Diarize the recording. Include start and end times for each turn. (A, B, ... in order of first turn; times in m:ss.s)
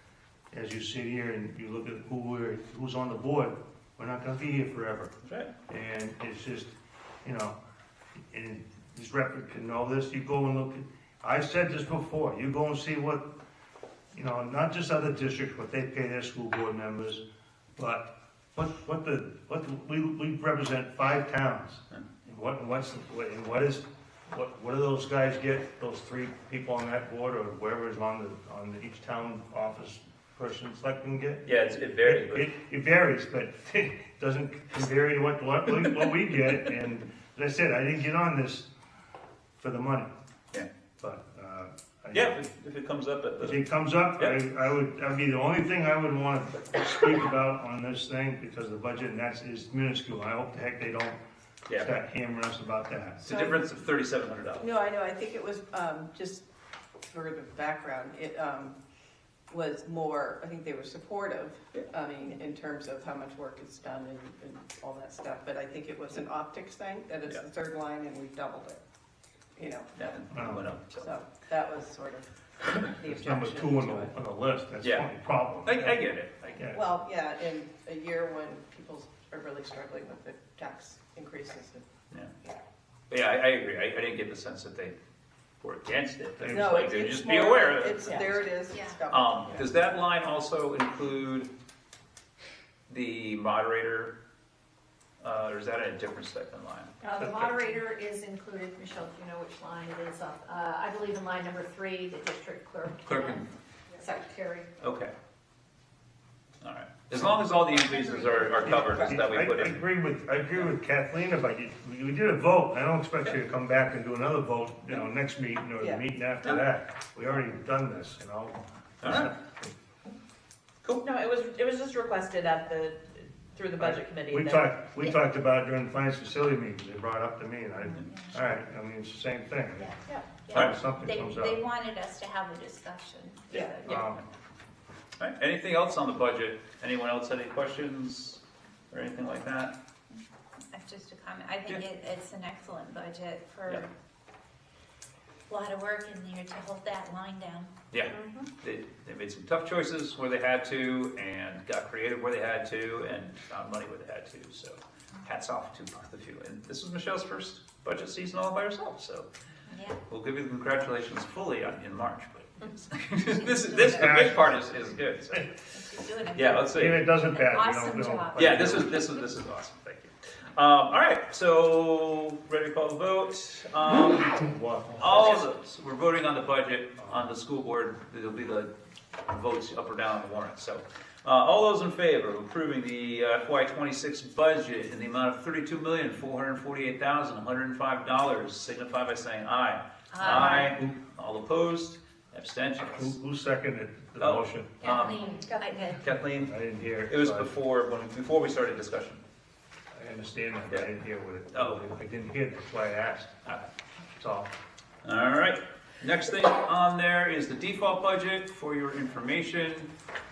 0:00.5-0:05.1 A
0:05.2-0:05.5 B
0:05.7-0:06.7 A
0:07.2-0:07.6 A
0:08.3-0:13.3 A
0:14.1-0:17.2 A
0:17.8-0:31.5 A
0:31.4-0:32.5 B
0:32.0-0:38.7 A
0:39.6-0:40.1 A
0:41.0-0:42.4 A
0:42.1-0:43.6 B
0:43.4-0:51.2 A
0:51.8-0:53.2 A
0:53.2-0:54.7 B
0:53.2-0:53.7 C
0:54.6-0:56.5 C
0:57.1-0:58.8 C
0:59.5-1:08.8 C
1:09.6-1:10.2 C
1:09.9-1:11.1 B
1:10.3-1:10.6 A
1:11.0-1:14.1 C
1:13.1-1:16.0 A
1:14.8-1:15.1 B
1:15.6-1:16.6 B
1:16.7-1:21.8 C
1:23.1-1:25.0 B
1:25.6-1:28.4 B
1:26.4-1:26.8 A
1:26.5-1:29.7 C
1:28.7-1:29.0 D
1:29.1-1:31.5 B
1:32.9-1:34.2 B
1:35.2-1:37.8 B
1:37.0-1:43.5 E
1:43.0-1:43.5 B
1:44.0-1:44.7 E
1:44.8-1:45.1 B
1:46.6-1:49.8 B
1:48.7-1:59.7 A
1:59.0-1:59.3 B
2:01.0-2:04.7 F
2:03.8-2:10.0 A
2:08.1-2:08.4 D
2:10.4-2:14.1 D
2:10.5-2:11.6 A
2:13.8-2:14.2 A
2:13.8-2:14.2 B
2:15.2-2:19.8 B
2:20.1-2:23.9 D
2:25.5-2:27.7 D
2:27.9-2:39.3 B
2:28.0-2:28.5 F
2:39.7-2:40.0 D
2:40.1-2:45.5 B
2:43.2-2:44.8 D
2:43.9-2:44.6 A
2:45.3-2:49.2 D
2:46.3-2:47.0 B
2:46.7-2:49.0 A
2:48.4-2:54.4 B
2:54.3-2:55.4 A
2:55.0-3:13.1 B
3:10.1-3:10.8 D
3:10.3-3:10.7 A
3:13.0-3:14.8 A
3:14.2-3:15.3 B
3:14.8-3:16.1 D
3:15.3-3:15.9 F
3:16.0-3:16.5 B
3:16.4-3:17.5 A
3:17.1-3:19.2 B
3:19.9-3:23.4 A
3:21.5-3:21.9 B
3:24.2-3:24.5 A
3:25.0-3:29.9 B